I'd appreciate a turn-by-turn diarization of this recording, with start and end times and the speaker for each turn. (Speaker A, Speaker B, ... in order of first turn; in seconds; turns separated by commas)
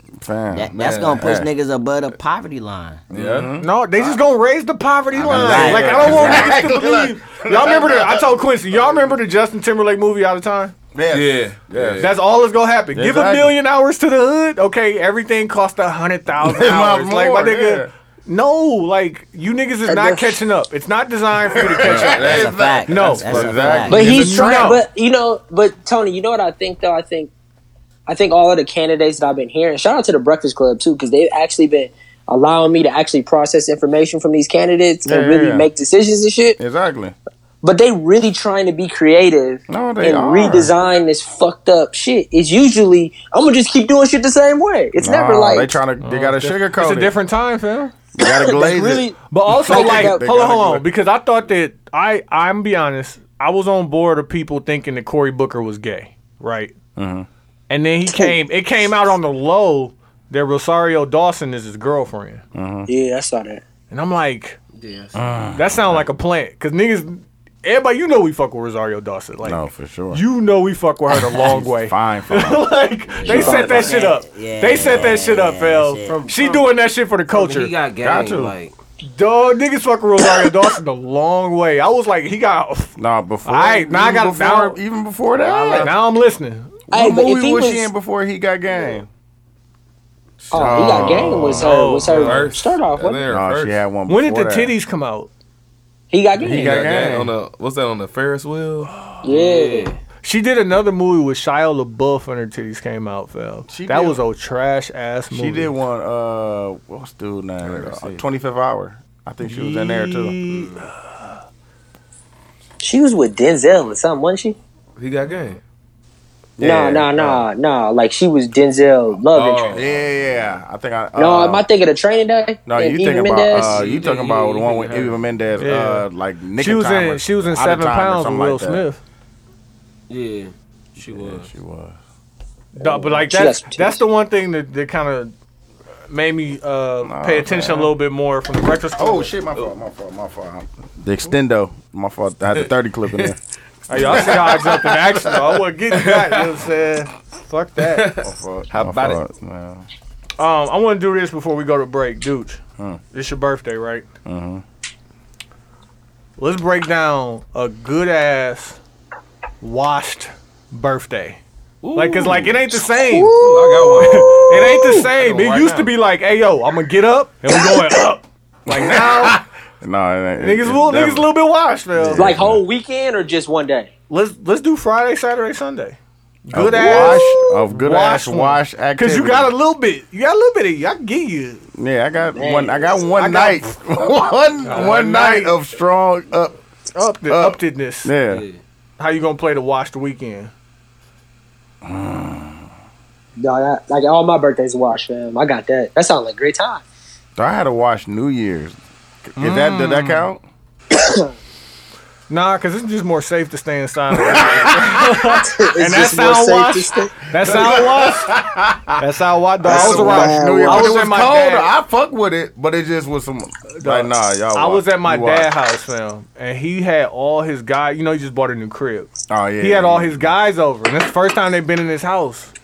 Speaker A: 0.2-1.5, Speaker B: 0.5-3.0, Speaker C: 0.7-1.4, Speaker C: 3.1-3.5, Speaker A: 3.1-3.7, Speaker D: 3.6-10.7, Speaker A: 5.1-8.8, Speaker B: 5.3-6.5, Speaker A: 10.9-12.1, Speaker C: 11.1-12.2, Speaker D: 12.0-24.8, Speaker A: 12.9-13.5, Speaker A: 16.4-17.9, Speaker E: 19.9-20.4, Speaker A: 21.5-24.8, Speaker B: 21.9-24.0, Speaker C: 22.0-24.0, Speaker E: 23.9-27.3, Speaker E: 28.1-36.6, Speaker A: 35.0-35.7, Speaker A: 36.6-37.1, Speaker E: 37.6-45.8, Speaker A: 39.7-40.7, Speaker A: 45.0-47.1, Speaker D: 46.0-47.9, Speaker A: 48.1-50.9, Speaker E: 48.2-50.2, Speaker D: 49.3-56.7, Speaker A: 57.0-57.3, Speaker D: 57.7-62.4, Speaker A: 62.5-62.9, Speaker E: 62.9-63.6, Speaker D: 63.9-64.6, Speaker F: 64.8-65.1, Speaker A: 65.1-66.1, Speaker D: 65.5-77.7, Speaker A: 69.4-70.2, Speaker A: 71.1-73.8, Speaker B: 73.2-76.2, Speaker E: 73.4-74.0, Speaker A: 74.7-75.2, Speaker F: 76.0-76.7, Speaker F: 77.3-78.7, Speaker A: 78.0-78.5, Speaker D: 79.0-82.9, Speaker A: 83.0-85.9, Speaker D: 83.5-84.8, Speaker F: 85.4-85.9, Speaker D: 85.8-86.7, Speaker E: 86.9-87.9, Speaker A: 86.9-89.1, Speaker A: 90.4-91.8, Speaker E: 90.5-93.3, Speaker D: 91.5-92.5, Speaker C: 92.0-93.8, Speaker A: 93.3-94.7, Speaker D: 94.1-95.3, Speaker E: 96.1-97.1, Speaker A: 96.4-97.3, Speaker C: 96.5-98.9, Speaker E: 99.2-99.9, Speaker F: 99.3-100.0, Speaker D: 100.2-105.8, Speaker A: 103.7-104.2, Speaker A: 105.3-110.4, Speaker C: 107.6-108.2, Speaker D: 109.4-110.9, Speaker E: 112.8-114.6, Speaker C: 115.0-115.6, Speaker A: 116.6-117.4, Speaker E: 116.6-119.8, Speaker C: 119.3-119.9, Speaker A: 119.7-121.6, Speaker E: 121.2-123.8, Speaker A: 122.7-128.8, Speaker F: 123.6-125.2, Speaker D: 125.6-126.0, Speaker D: 126.6-129.0, Speaker F: 130.1-131.5, Speaker A: 131.0-132.0, Speaker D: 132.8-135.3, Speaker E: 132.8-134.0, Speaker D: 136.1-139.3, Speaker A: 137.0-137.9, Speaker A: 139.0-143.4, Speaker D: 143.9-148.2, Speaker A: 143.9-145.3, Speaker C: 143.9-144.3, Speaker C: 145.9-146.5, Speaker C: 147.8-149.2, Speaker A: 148.2-149.9, Speaker D: 150.4-152.6, Speaker D: 153.1-154.1, Speaker A: 154.2-154.6, Speaker D: 156.4-158.8, Speaker D: 159.6-161.4, Speaker C: 161.8-162.5, Speaker D: 161.9-163.3, Speaker E: 163.1-164.1, Speaker C: 163.3-165.9, Speaker D: 163.9-169.4, Speaker A: 168.7-171.3, Speaker D: 170.4-172.3, Speaker A: 171.9-172.6, Speaker E: 172.2-173.9, Speaker D: 174.1-181.6, Speaker A: 176.5-179.5, Speaker A: 181.8-186.5, Speaker E: 182.3-183.0, Speaker D: 183.2-183.7, Speaker D: 184.6-185.5, Speaker D: 186.9-188.1, Speaker A: 187.3-188.4, Speaker F: 188.3-188.6, Speaker D: 189.0-190.5, Speaker A: 191.8-192.6, Speaker E: 193.4-196.8, Speaker A: 197.4-200.4, Speaker D: 199.4-200.3, Speaker E: 200.9-201.3, Speaker D: 202.3-208.3, Speaker A: 204.1-205.0, Speaker E: 205.2-207.2, Speaker A: 207.4-209.0, Speaker D: 209.0-211.7, Speaker A: 209.6-215.5, Speaker E: 209.6-211.0, Speaker D: 213.7-219.1, Speaker A: 219.3-220.3, Speaker D: 219.6-222.5